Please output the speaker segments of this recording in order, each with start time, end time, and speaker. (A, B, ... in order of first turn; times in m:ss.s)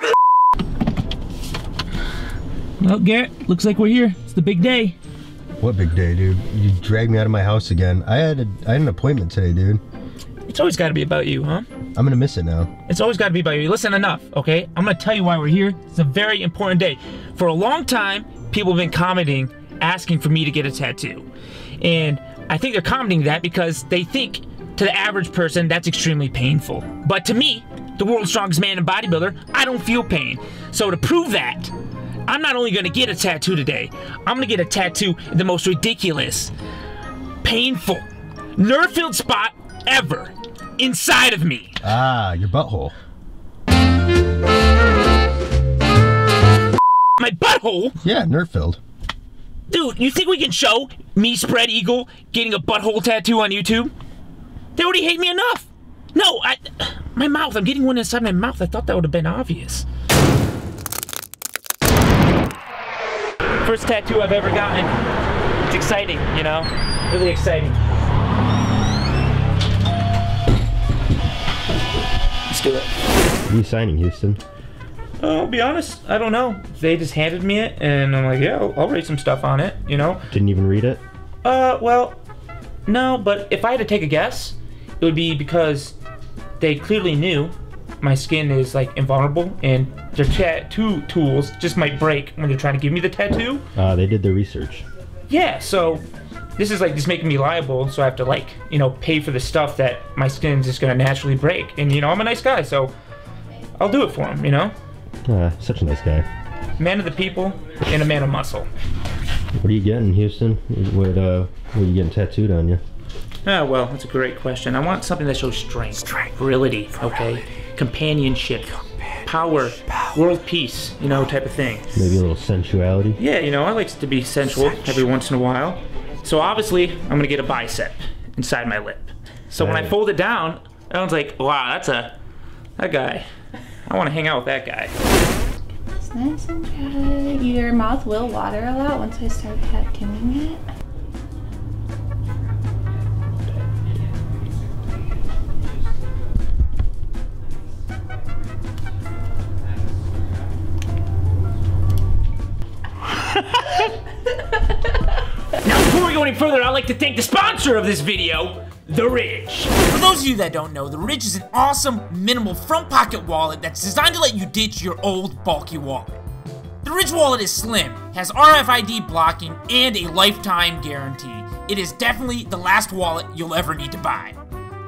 0:02.8-0:05.0 A
0:05.6-0:09.8 B
0:10.5-0:11.7 A
0:12.0-0:12.7 B
0:12.9-0:21.3 A
0:21.8-0:31.7 A
0:32.3-0:36.5 A
0:37.4-0:41.8 A
0:41.8-0:42.9 B
0:47.2-0:48.0 A
0:48.0-0:48.8 B
0:49.7-0:53.9 A
0:54.8-0:59.8 A
1:03.6-1:05.0 A
1:05.7-1:07.8 A
1:12.5-1:12.9 A
1:13.5-1:14.4 B
1:15.2-1:20.2 A
1:20.3-1:21.0 B
1:21.4-1:22.2 A
1:22.9-1:26.0 A
1:26.6-1:33.6 A
1:33.7-1:34.8 B
1:35.3-1:36.0 A
1:36.6-1:42.9 A
1:43.8-1:44.7 A
1:45.2-1:46.2 B
1:46.8-1:48.7 A
1:49.6-1:52.8 B
1:53.4-2:02.1 A
2:01.9-2:03.2 B
2:03.2-2:12.1 A
2:09.6-2:09.9 B
2:12.8-2:13.3 A
2:13.8-2:14.9 A
2:16.0-2:20.6 C
2:33.1-2:33.9 A
2:35.6-2:46.1 A
2:46.8-2:54.4 A